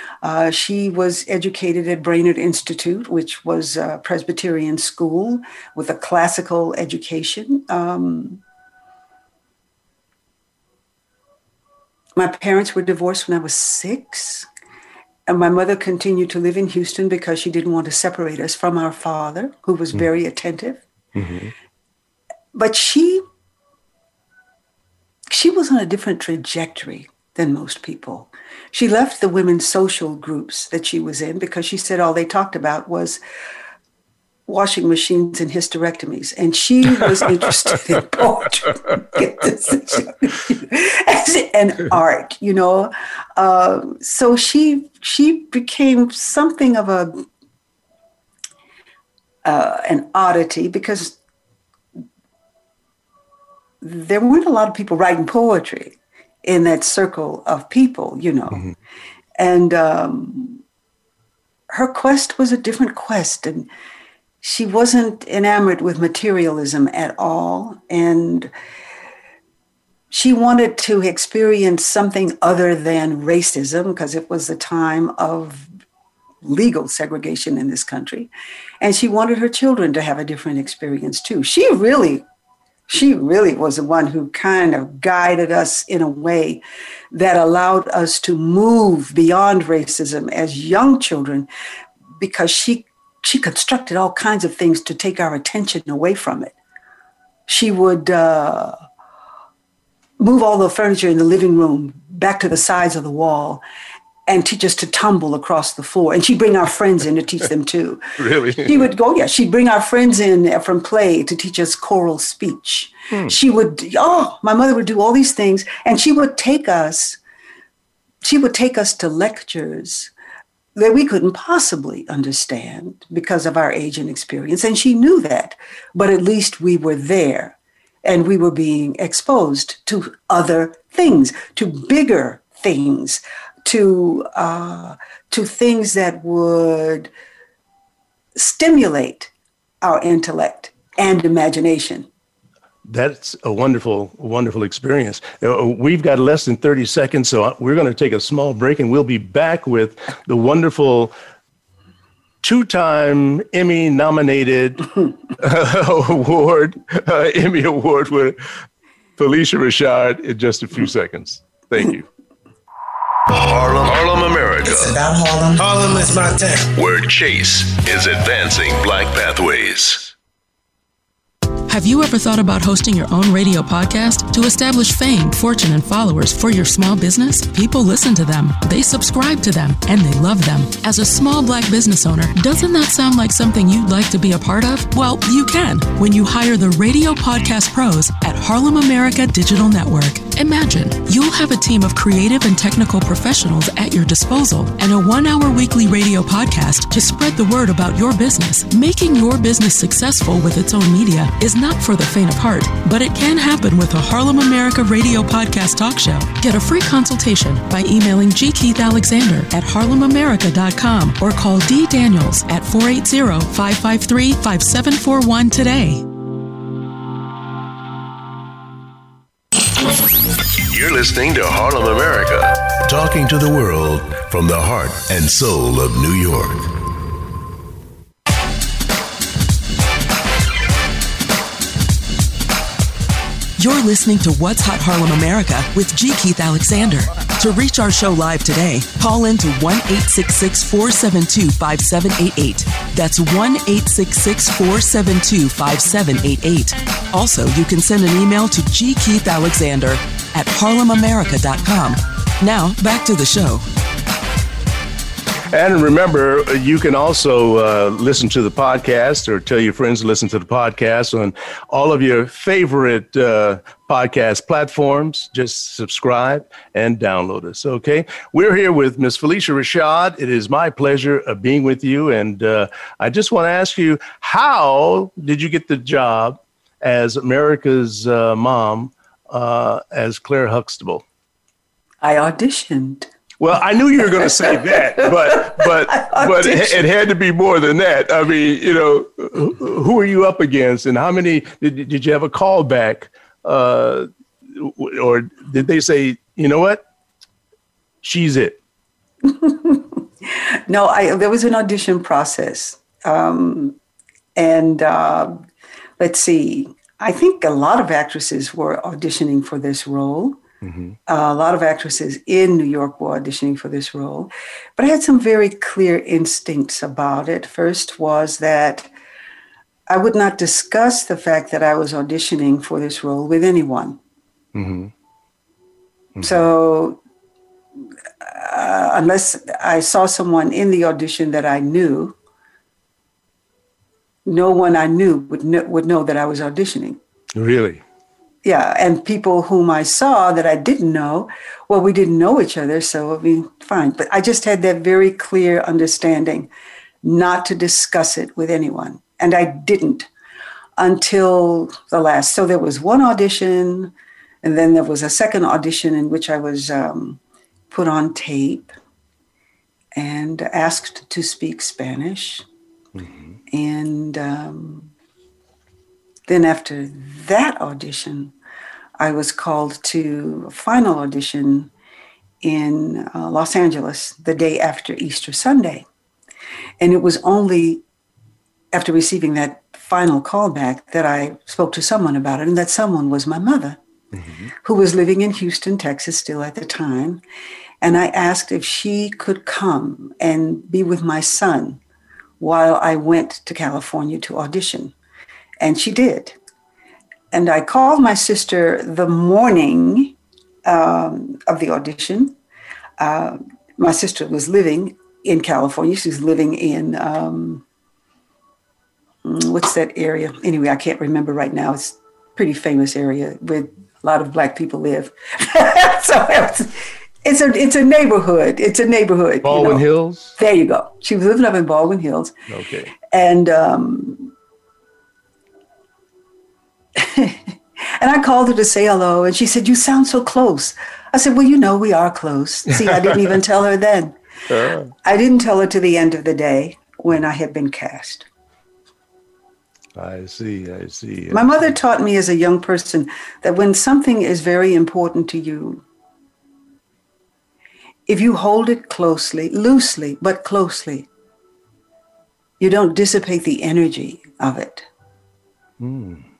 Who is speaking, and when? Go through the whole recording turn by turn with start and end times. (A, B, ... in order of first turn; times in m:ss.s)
0:00.2-0:08.4 A
0:12.2-0:14.5 A
0:15.3-0:20.8 A
0:21.1-0:21.5 B
0:22.5-0:23.2 A
0:25.3-0:33.2 A
0:34.5-0:47.2 A
0:49.4-0:51.2 A
0:53.8-0:58.7 A
0:59.4-1:00.6 A
1:01.7-1:03.7 A
1:04.4-1:08.5 A
1:10.1-1:15.7 A
1:16.4-1:18.3 A
1:18.8-1:22.2 A
1:22.9-1:31.5 A
1:32.2-1:36.5 A
1:37.5-1:38.8 A
1:40.2-1:43.6 A
1:44.3-1:57.2 A
1:48.2-1:48.9 B
1:53.1-1:53.4 B
1:58.2-2:00.1 A
2:00.7-2:17.1 A
2:18.4-2:22.1 A
2:22.8-2:31.1 B
2:32.4-2:38.4 B
2:39.2-2:42.1 B
2:43.3-2:45.0 C
2:44.7-2:46.7 D
2:46.7-2:50.1 C
2:51.7-3:36.0 E
3:40.7-3:46.7 C
3:53.6-4:13.6 E
4:15.5-4:41.0 B
4:42.0-4:43.1 A
4:43.4-4:56.8 B
4:44.1-4:46.8 A
4:58.0-4:58.6 B
4:59.3-5:03.8 A
5:04.4-5:05.4 A
5:06.0-5:10.4 A
5:10.6-5:10.9 B
5:11.1-5:18.9 A
5:19.9-5:24.0 A
5:24.5-5:24.9 B
5:26.2-5:26.4 B
5:26.2-5:27.0 A
5:28.2-5:32.2 A
5:34.2-5:37.0 A
5:37.3-5:37.8 B
5:38.4-5:46.5 A
5:47.0-5:50.1 A
5:50.8-5:58.7 A
5:59.9-6:02.4 A
6:03.5-6:04.9 A
6:06.3-6:08.3 A
6:09.0-6:11.7 A
6:12.4-6:15.8 A
6:16.8-6:17.8 A
6:18.7-6:23.8 A
6:24.2-6:24.5 B
6:24.6-6:27.2 A
6:27.8-6:31.8 A
6:32.4-6:34.9 A
6:35.6-6:36.4 A
6:37.3-6:42.3 A
6:43.0-6:47.6 A
6:49.2-7:02.3 A
6:59.4-7:00.3 B
7:02.5-7:02.9 B
7:03.1-7:04.3 A
7:07.0-7:14.2 A
7:12.8-7:13.4 B
7:14.5-7:14.9 B
7:15.0-7:18.3 A
7:19.9-7:21.7 B
7:21.3-7:25.8 A
7:28.1-7:31.1 A
7:32.6-7:34.8 A
7:35.8-7:36.2 B